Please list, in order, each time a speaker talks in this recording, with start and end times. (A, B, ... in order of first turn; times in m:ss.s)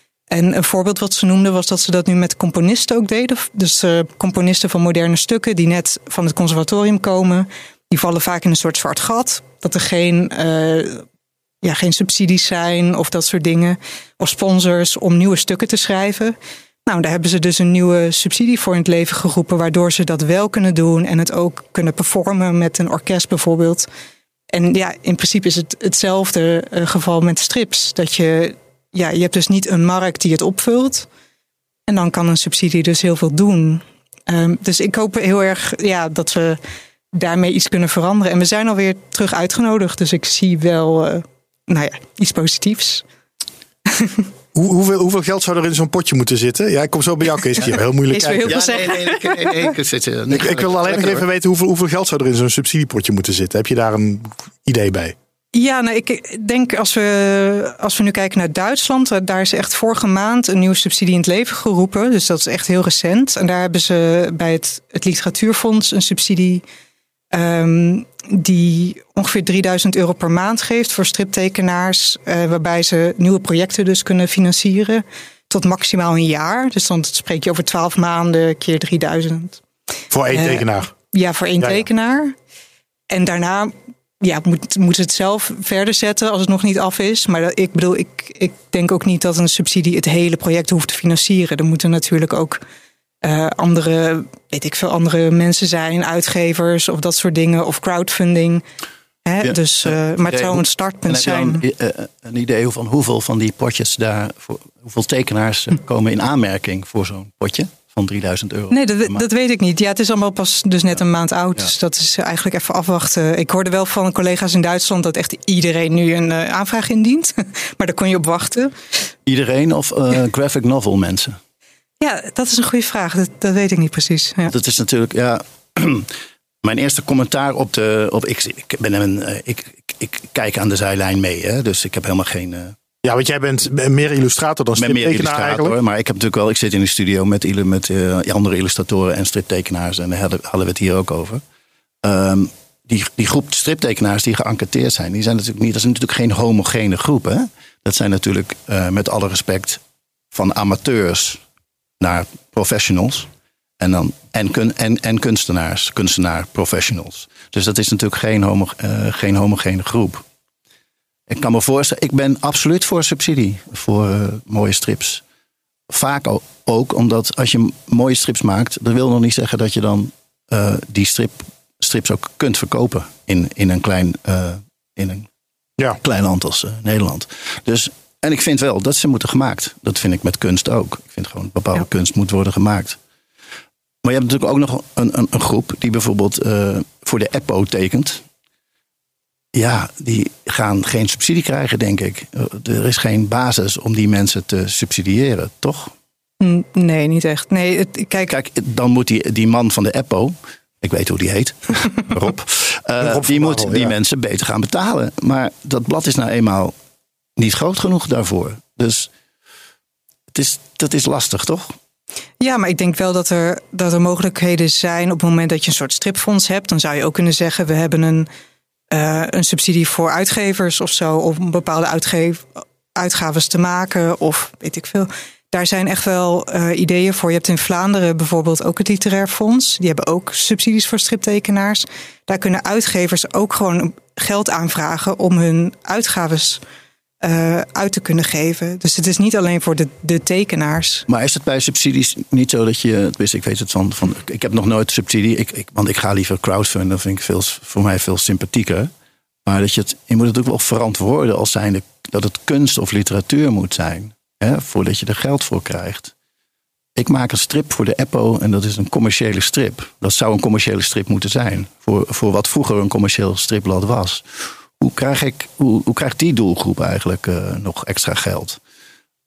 0:00.3-0:11.0 A
0:11.6-0:23.9 A
0:24.5-0:31.1 A
0:31.9-0:36.6 A
0:37.1-0:43.0 A
0:43.9-0:44.2 A
0:44.5-0:48.6 B
0:48.1-0:49.7 A
0:48.4-0:51.2 C
0:50.3-0:55.1 B
0:55.5-1:06.6 A
1:07.3-1:19.6 A
1:20.1-1:20.9 B
1:20.3-1:22.4 A
1:21.6-1:21.8 B
1:23.1-1:32.6 A
1:33.2-1:38.6 A
1:39.2-1:41.6 A
1:39.4-1:49.2 C
1:48.7-1:58.7 A
1:59.2-2:01.4 C
2:02.0-2:04.5 A
2:04.5-2:06.1 C
2:06.6-2:12.8 C
2:13.0-2:15.8 B
2:14.8-2:21.4 C
2:22.0-2:29.8 C
2:30.3-2:31.4 C
2:32.0-2:40.2 C
2:41.3-2:45.2 C
2:45.9-2:55.3 C
2:56.0-3:03.0 C
3:04.0-3:08.2 C
3:09.5-3:15.9 C
3:16.4-3:18.3 A
3:18.3-3:26.7 C
3:23.0-3:23.9 B
3:27.4-3:29.1 C
3:30.3-3:31.7 C
3:32.4-3:38.3 A
3:38.9-3:56.6 A
3:57.2-4:01.1 A
4:01.1-4:08.9 C
4:09.4-4:16.1 C
4:17.0-4:28.6 C